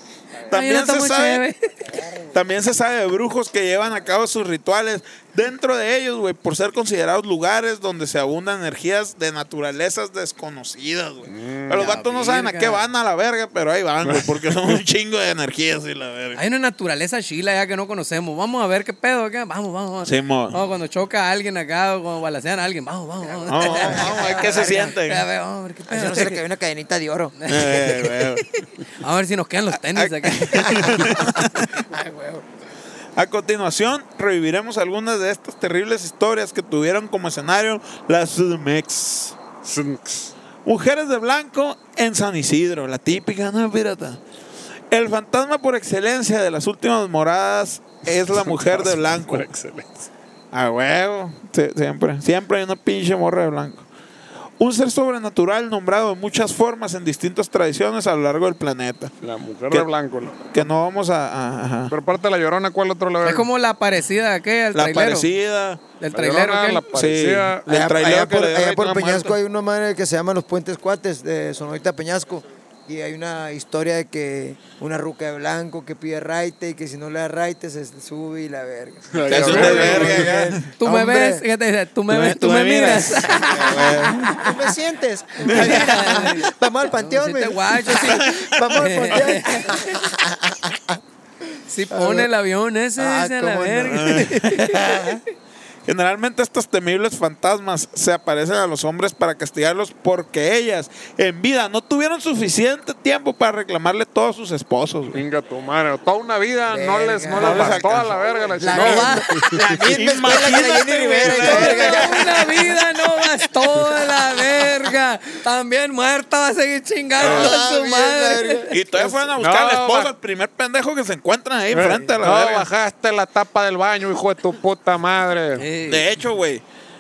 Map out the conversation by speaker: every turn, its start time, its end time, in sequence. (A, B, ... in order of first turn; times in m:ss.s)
0:00.5-0:01.4 A
0:00.5-0:01.7 B
0:02.3-0:16.4 A
0:11.3-0:11.9 C
0:11.7-0:12.8 B
0:14.0-0:14.8 C
0:16.4-0:26.4 B
0:20.0-0:20.6 A
0:23.5-0:25.3 A
0:23.5-0:24.8 D
0:25.9-0:27.4 D
0:27.4-0:31.0 B
0:27.5-0:28.5 A
0:29.9-0:31.8 A
0:30.6-0:32.5 D
0:33.2-0:39.4 A
0:39.6-0:40.3 C
0:40.6-0:44.2 A
0:44.9-0:49.5 A
0:48.3-0:50.1 C
0:50.5-0:53.9 A
0:54.6-0:59.1 A
0:59.2-1:00.7 C
1:00.5-1:02.0 A
1:01.9-1:03.5 C
1:03.2-1:05.3 B
1:04.7-1:05.8 A
1:06.0-1:06.8 B
1:06.1-1:07.6 C
1:06.9-1:09.3 A
1:07.7-1:21.4 D
1:19.1-1:20.4 C
1:19.3-1:20.7 A
1:19.6-1:19.8 B
1:20.8-1:24.4 B
1:22.1-1:24.4 A
1:24.3-1:31.0 D
1:25.4-1:30.0 B
1:25.5-1:26.2 A
1:27.9-1:29.4 A
1:31.7-1:35.2 B
1:31.9-1:32.3 D
1:33.0-1:34.3 D
1:33.9-1:35.2 A
1:35.9-1:45.2 A
1:45.1-1:49.6 C
1:46.7-1:47.9 D
1:47.4-1:48.1 A
1:48.6-1:52.6 D
1:48.7-1:49.3 B
1:49.8-1:52.5 A
1:51.4-1:58.7 B
1:57.2-1:57.6 A
1:57.2-1:59.2 D
1:58.7-2:02.7 A
1:59.4-2:00.1 C
2:01.7-2:05.7 C
2:05.6-2:06.0 B
2:05.9-2:06.6 A